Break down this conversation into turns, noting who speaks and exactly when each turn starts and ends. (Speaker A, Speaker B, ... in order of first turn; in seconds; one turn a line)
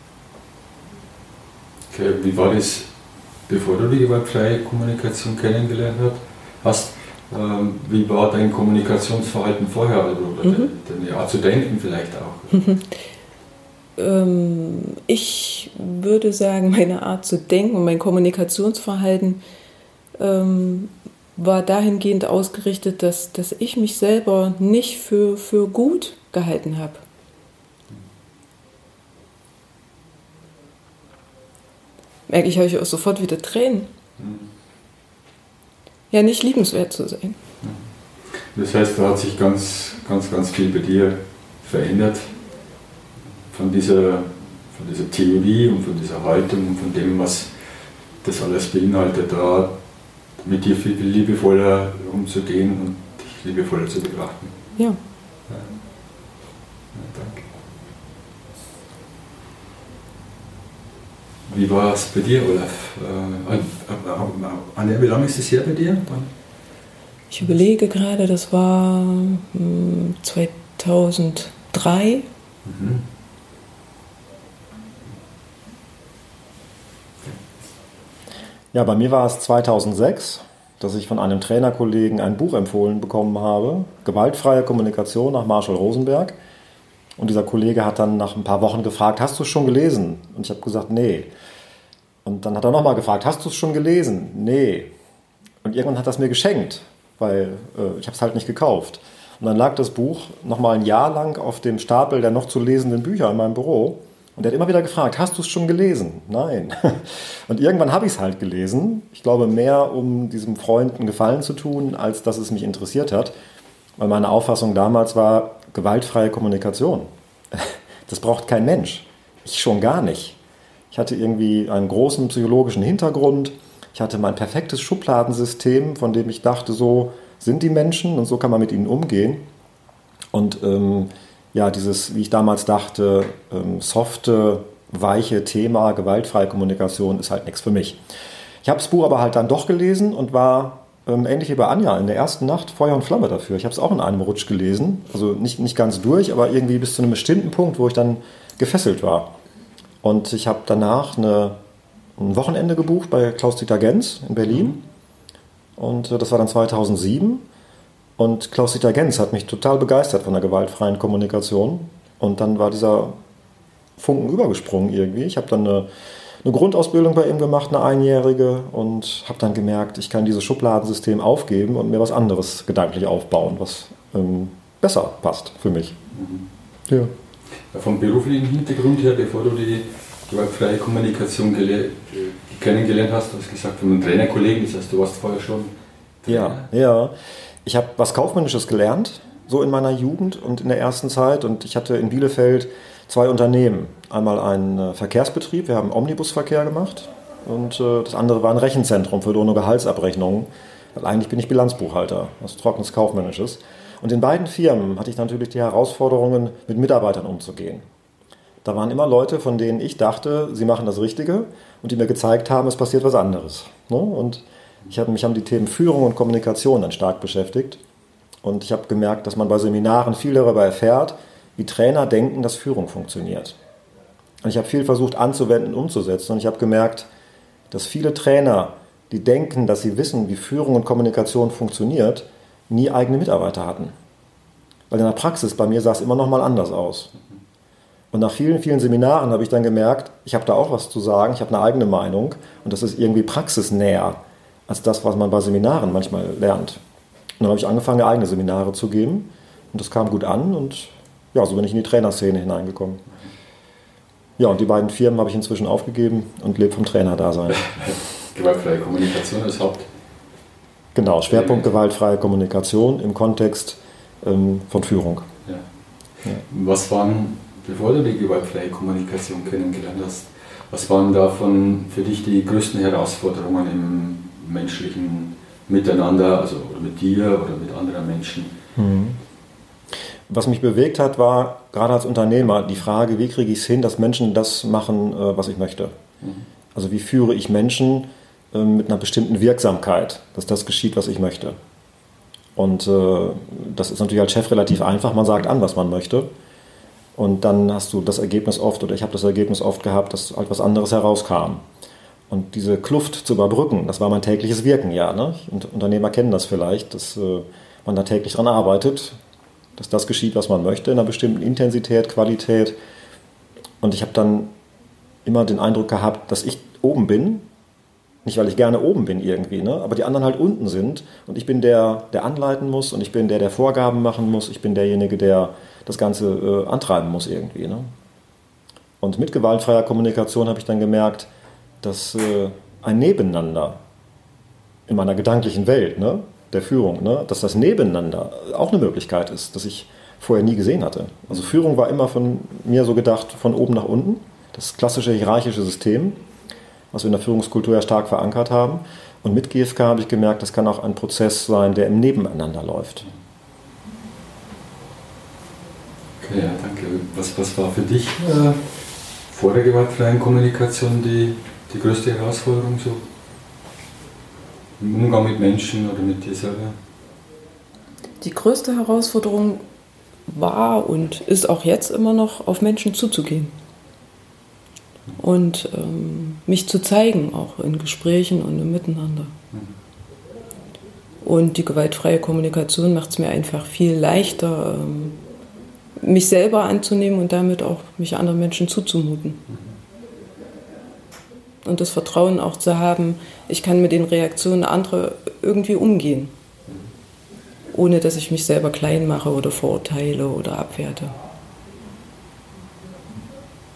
Speaker A: 1.9-2.9
Speaker A: 3.5-12.6
Speaker B: 12.5-12.8
Speaker B: 14.0-19.4
Speaker B: 20.2-27.0
Speaker B: 32.3-33.9
Speaker A: 34.2-34.5
Speaker B: 36.1-37.4
Speaker A: 37.6-42.3
Speaker A: 43.5-47.5
Speaker A: 48.2-49.8
Speaker A: 50.4-54.5
Speaker A: 55.5-55.8
Speaker A: 56.9-57.5
Speaker A: 61.5-66.3
Speaker B: 67.3-72.3
Speaker A: 72.6-73.0
Speaker C: 78.7-86.3
Speaker C: 87.2-91.3
Speaker C: 92.2-94.9
Speaker C: 95.6-113.3
Speaker C: 114.0-120.4
Speaker C: 120.9-129.4
Speaker C: 130.3-138.0
Speaker C: 138.6-149.3
Speaker C: 150.0-151.6
Speaker C: 152.2-154.8
Speaker C: 155.8-157.4
Speaker C: 158.2-163.2
Speaker C: 164.0-165.9
Speaker C: 166.4-175.9
Speaker A: 176.1-176.4
Speaker A: 177.7-185.7
Speaker A: 186.2-186.7
Speaker C: 186.3-187.1
Speaker C: 187.6-207.8
Speaker C: 208.6-217.8
Speaker C: 218.4-223.6
Speaker C: 224.4-227.1
Speaker C: 227.7-233.9
Speaker C: 234.9-237.1
Speaker C: 238.1-246.8
Speaker C: 247.4-253.0
Speaker C: 254.4-257.7
Speaker A: 257.5-259.9
Speaker C: 260.9-265.3
Speaker A: 261.3-261.7
Speaker A: 266.4-278.6
Speaker C: 278.8-279.2
Speaker C: 280.3-285.9
Speaker A: 286.2-286.4
Speaker C: 286.7-291.6
Speaker C: 292.6-296.3
Speaker C: 297.1-301.6
Speaker C: 302.3-309.1
Speaker C: 309.8-312.7
Speaker C: 313.8-314.5
Speaker C: 315.2-317.4
Speaker C: 318.2-327.9
Speaker C: 329.0-331.3
Speaker C: 331.8-333.8
Speaker C: 334.9-346.2
Speaker C: 346.9-353.1
Speaker A: 356.2-363.1
Speaker A: 364.8-366.8
Speaker B: 368.2-369.6
Speaker B: 370.3-373.5
Speaker B: 375.2-379.3
Speaker B: 381.2-385.2
Speaker B: 386.0-389.4
Speaker A: 389.5-389.7
Speaker B: 391.6-396.3
Speaker B: 397.7-401.1